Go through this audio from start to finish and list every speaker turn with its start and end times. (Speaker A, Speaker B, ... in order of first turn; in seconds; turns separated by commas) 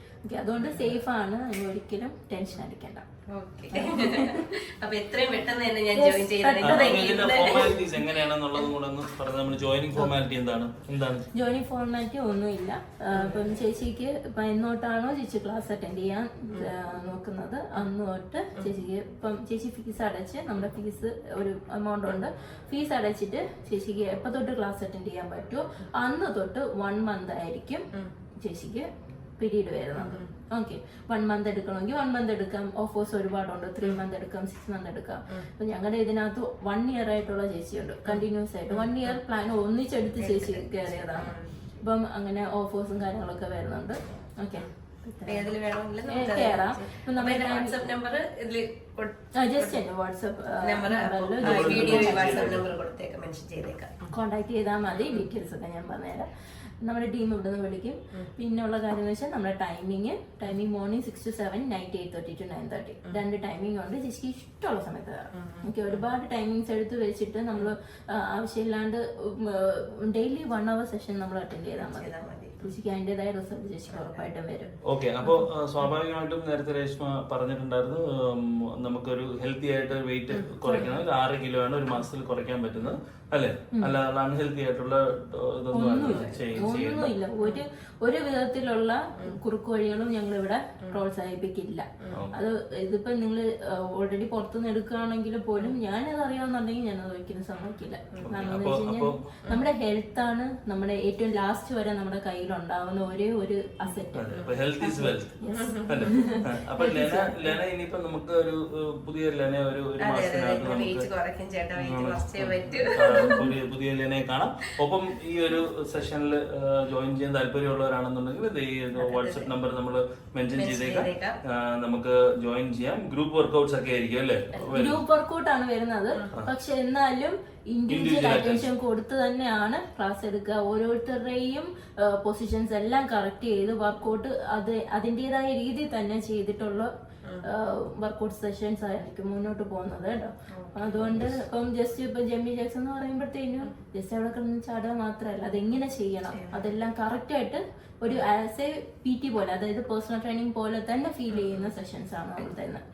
Speaker A: 0.3-3.0, Speaker B: 0.6-0.9, Speaker B: 3.3-8.0, Speaker A: 3.7-4.4, Speaker A: 5.9-7.9, Speaker C: 6.6-11.2, Speaker A: 11.3-27.9, Speaker B: 13.1-13.6, Speaker A: 28.4-45.5, Speaker B: 29.9-30.3, Speaker B: 38.1-39.1, Speaker B: 40.2-41.5, Speaker B: 45.2-49.8, Speaker A: 46.1-47.8, Speaker A: 49.3-52.6, Speaker B: 50.6-54.1, Speaker C: 51.4-52.6, Speaker A: 54.1-56.3, Speaker B: 55.0-55.2, Speaker A: 56.8-75.4, Speaker B: 65.3-66.0, Speaker B: 71.8-72.6, Speaker B: 73.9-74.2, Speaker C: 74.8-87.1, Speaker A: 80.6-81.0, Speaker A: 85.7-107.6, Speaker B: 86.0-86.4, Speaker C: 98.2-99.2, Speaker C: 104.1-111.1, Speaker B: 104.3-104.6, Speaker B: 105.6-106.3, Speaker B: 110.0-113.5, Speaker C: 111.8-125.0, Speaker B: 118.9-119.5, Speaker B: 120.5-121.4, Speaker A: 124.7-136.9, Speaker C: 127.9-128.7, Speaker A: 137.4-152.8, Speaker B: 140.5-140.9, Speaker C: 140.9-141.4, Speaker B: 146.3-146.7, Speaker B: 151.3-151.7